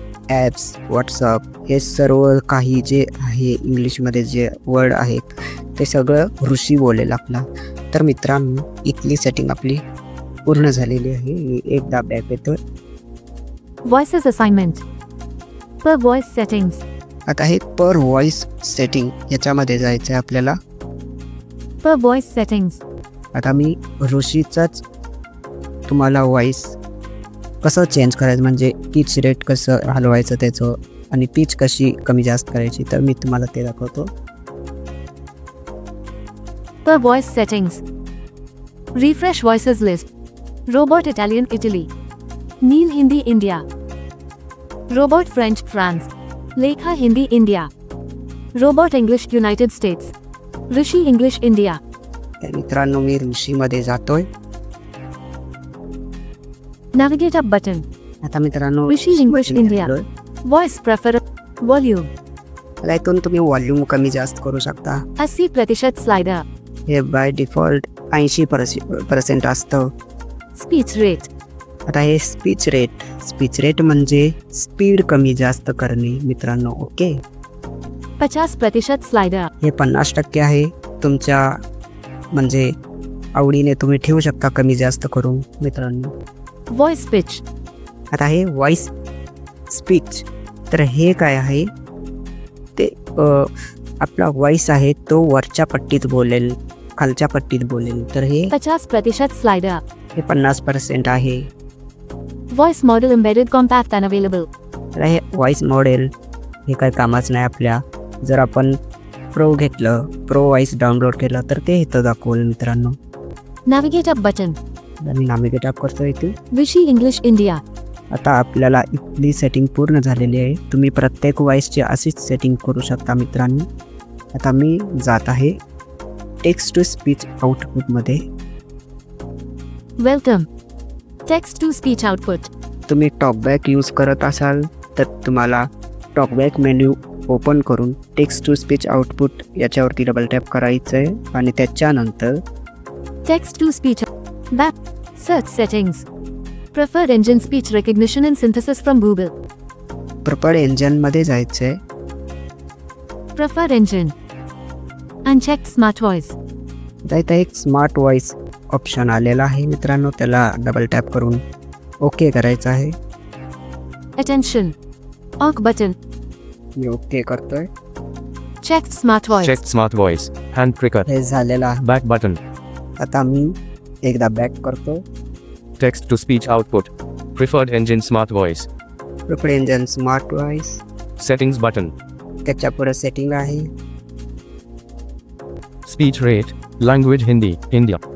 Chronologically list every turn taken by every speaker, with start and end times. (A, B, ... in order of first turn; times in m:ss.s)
0:00.3-0:09.8 A
0:10.5-0:12.6 A
0:13.8-0:14.8 B
0:15.8-0:16.8 B
0:17.3-0:20.6 A
0:21.8-0:22.8 B
0:23.4-0:24.8 A
0:25.9-0:26.8 A
0:27.6-0:34.1 A
0:36.8-0:37.8 B
0:39.0-0:40.1 B
0:40.7-0:41.9 B
0:42.6-0:43.6 B
0:44.9-0:47.7 B
0:48.6-0:50.1 B
0:50.7-0:51.8 B
0:52.4-0:54.3 A
0:56.9-0:57.8 B
0:58.2-1:00.0 A
0:58.9-0:59.9 B
1:00.4-1:02.1 B
1:02.8-1:05.0 A
1:05.2-1:06.4 B
1:06.9-1:09.9 A
1:10.6-1:11.3 B
1:11.9-1:17.1 A
1:18.2-1:19.5 B
1:19.6-1:21.6 A
1:22.4-1:22.7 A
1:23.4-1:26.1 A
1:26.7-1:27.4 B
1:28.1-1:28.9 A
1:29.7-1:31.7 A
1:32.8-1:38.5 A
1:38.5-1:39.8 B
1:40.2-1:41.5 A
1:42.5-1:44.5 B
1:45.0-1:46.1 A
1:46.7-1:48.8 A
1:49.4-1:53.0 A
1:53.7-1:54.6 B
1:55.0-1:56.3 A
1:56.5-1:57.6 B
1:58.1-2:03.7 A
2:04.4-2:05.6 A
2:06.4-2:08.2 A
2:10.0-2:10.5 B
2:11.3-2:12.5 B
2:12.9-2:22.4 A
2:23.3-2:26.1 B
2:26.7-2:29.3 B
2:30.2-2:31.8 A
2:33.4-2:34.1 B
2:35.3-2:36.4 B
2:37.1-2:41.4 A
2:42.0-2:43.0 A
2:44.2-2:44.7 B
2:45.4-2:46.0 B
2:46.8-2:47.7 A
2:48.6-2:49.6 B
2:49.4-2:51.1 C
2:51.1-2:51.8 A
2:51.8-2:52.4 C
2:53.0-2:55.0 A
2:55.8-2:58.7 C
2:59.3-3:00.8 A
3:01.2-3:01.9 C
3:02.4-3:03.7 A
3:05.9-3:08.0 C